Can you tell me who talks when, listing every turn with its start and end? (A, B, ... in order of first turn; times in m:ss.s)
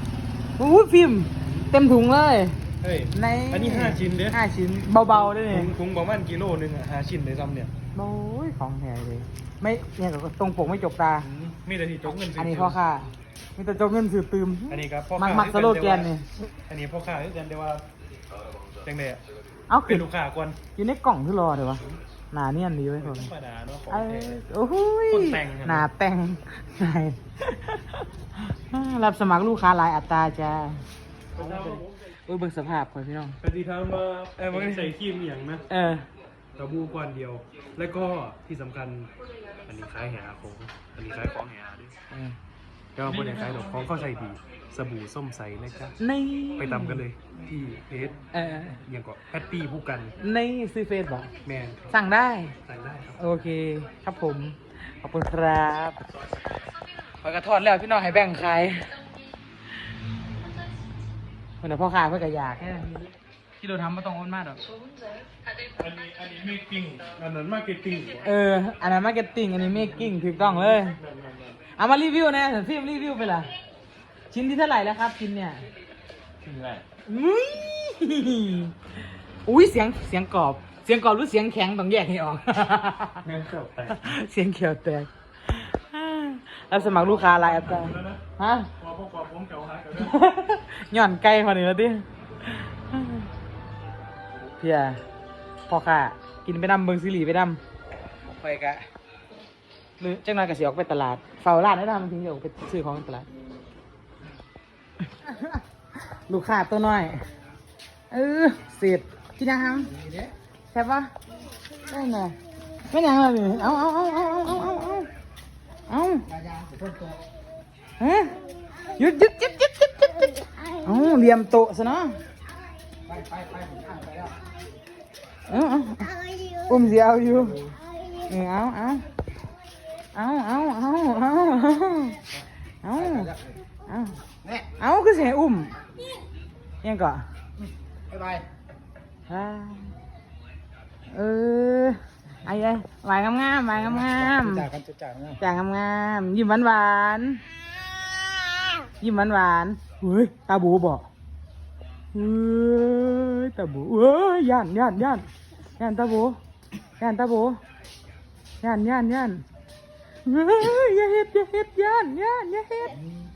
0:00.6-0:02.6 A
0:02.8-0:04.4 B
0:03.1-0:05.7 A
0:05.1-0:07.7 B
0:08.0-0:11.3 A
0:11.2-0:12.8 B
0:12.1-0:16.3 A
0:14.7-0:16.1 B
0:16.7-0:17.9 B
0:18.8-0:19.2 B
0:19.7-0:20.0 A
0:19.9-0:20.6 B
0:20.8-0:23.3 A
0:23.0-0:24.4 B
0:23.9-0:30.8 A
0:25.1-0:25.9 B
0:31.4-0:32.0 B
0:31.4-0:33.4 A
0:33.4-0:35.6 B
0:34.4-0:34.9 A
0:35.7-0:36.1 A
0:36.6-0:39.1 B
0:39.7-0:41.9 B
0:43.0-0:46.0 B
0:46.0-0:47.0 A
0:46.6-0:48.2 B
0:48.3-0:48.8 A
0:48.8-0:50.2 B
0:50.2-0:51.3 A
0:51.4-0:51.9 B
0:51.9-0:52.6 A
0:52.7-0:53.2 B
0:53.2-0:56.0 A
0:57.2-0:59.0 A
1:01.6-1:04.6 A
1:05.8-1:08.3 B
1:08.2-1:11.0 A
1:09.7-1:11.6 B
1:11.8-1:13.5 A
1:14.3-1:15.6 A
1:16.4-1:16.8 B
1:17.1-1:18.9 A
1:19.5-1:23.2 A
1:23.2-1:24.1 B
1:23.9-1:28.7 A
1:26.7-1:28.2 B
1:28.8-1:30.2 B
1:30.0-1:33.3 A
1:34.6-1:35.0 A
1:35.7-1:37.6 A
1:38.4-1:38.9 A
1:40.0-1:43.3 A
1:45.2-1:45.6 A
1:46.3-1:47.2 A
1:48.1-1:50.0 A
1:50.0-1:50.3 C
1:50.7-1:51.1 A
1:51.9-1:52.4 A
1:52.9-1:55.1 A
1:55.9-1:56.3 A
1:56.3-1:57.2 C
1:58.0-2:02.2 A
2:03.1-2:04.4 C
2:05.5-2:09.1 A
2:10.1-2:12.2 A
2:12.8-2:14.2 A
2:13.1-2:13.5 C
2:14.8-2:15.8 A
2:16.8-2:17.2 A
2:18.1-2:18.4 C
2:19.3-2:19.9 A
2:21.1-2:24.7 A
2:24.4-2:25.4 C
2:25.4-2:27.4 A
2:29.0-2:31.1 A
2:32.1-2:35.3 A
2:35.8-2:36.4 A
2:37.0-2:37.6 A
2:38.6-2:39.4 A
2:40.3-2:43.0 A